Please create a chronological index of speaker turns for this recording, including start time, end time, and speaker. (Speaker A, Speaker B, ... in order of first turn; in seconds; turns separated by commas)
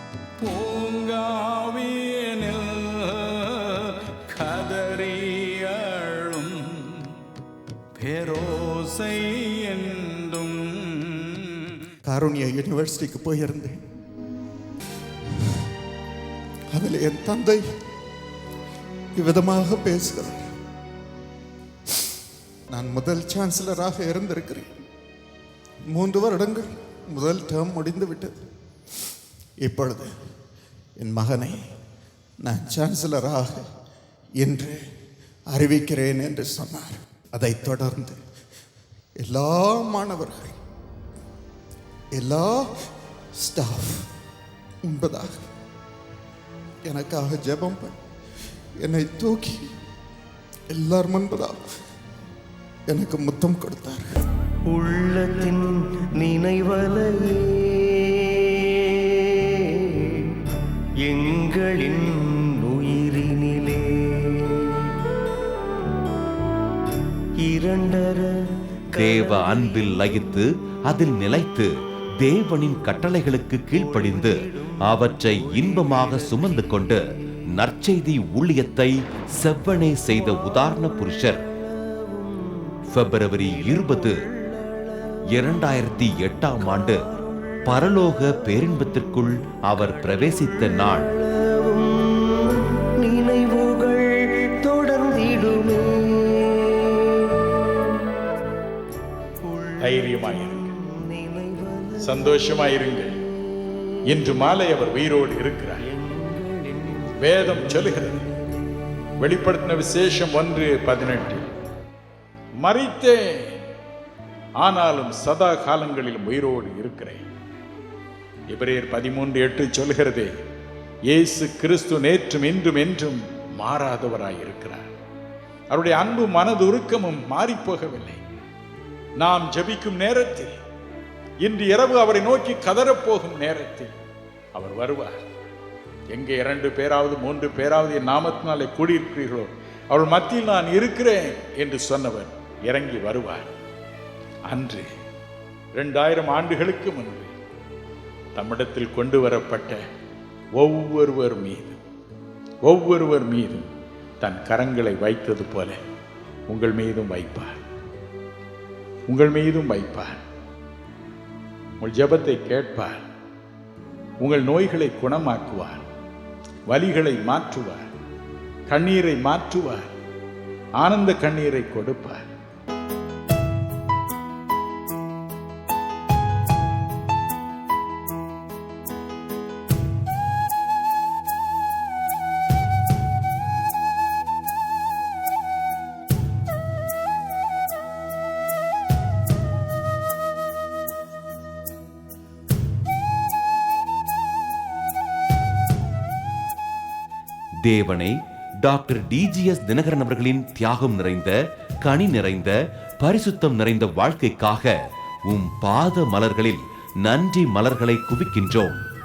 Speaker A: 0.4-6.9, Speaker A: 8.0-11.4, Speaker B: 12.1-13.8, Speaker B: 16.7-17.6, Speaker B: 19.2-20.5, Speaker B: 22.7-24.7, Speaker B: 25.9-28.4, Speaker B: 29.6-30.1, Speaker B: 31.0-31.6, Speaker B: 32.5-33.6, Speaker B: 34.4-34.8, Speaker B: 35.5-38.2, Speaker B: 39.2-40.6, Speaker B: 42.1-42.7, Speaker B: 43.4-44.1, Speaker B: 44.9-45.4, Speaker B: 46.9-48.0, Speaker B: 48.8-49.7, Speaker B: 50.7-51.6, Speaker B: 52.9-54.1, Speaker C: 54.7-55.7, Speaker C: 56.2-57.9, Speaker C: 61.1-64.4, Speaker C: 67.5-68.3, Speaker D: 68.9-81.5, Speaker C: 69.2-69.5, Speaker C: 82.1-82.5, Speaker D: 82.9-84.3, Speaker C: 84.5-84.8, Speaker D: 85.3-87.1, Speaker C: 87.2-87.5, Speaker D: 87.7-91.1, Speaker C: 90.3-90.6, Speaker C: 91.2-92.2, Speaker C: 93.0-96.4, Speaker C: 99.5-101.5, Speaker A: 99.8-100.7, Speaker A: 102.0-103.2, Speaker A: 104.1-105.8, Speaker A: 107.2-108.3, Speaker A: 109.2-111.5, Speaker A: 112.6-113.5, Speaker A: 114.6-117.2, Speaker A: 118.5-120.3, Speaker A: 121.1-124.9, Speaker A: 125.7-128.2, Speaker A: 129.2-130.5, Speaker A: 131.4-133.9, Speaker A: 134.6-135.2, Speaker A: 136.1-143.5, Speaker A: 144.5-144.9, Speaker A: 145.8-147.3, Speaker A: 148.4-149.8, Speaker A: 150.6-151.8, Speaker A: 152.7-153.7, Speaker A: 154.2-155.8, Speaker A: 156.5-157.6, Speaker A: 159.1-160.2, Speaker A: 161.8-163.0, Speaker A: 164.2-165.8, Speaker A: 166.7-167.8, Speaker A: 168.7-169.9, Speaker A: 170.8-172.2, Speaker D: 197.7-204.7, Speaker D: 205.3-208.8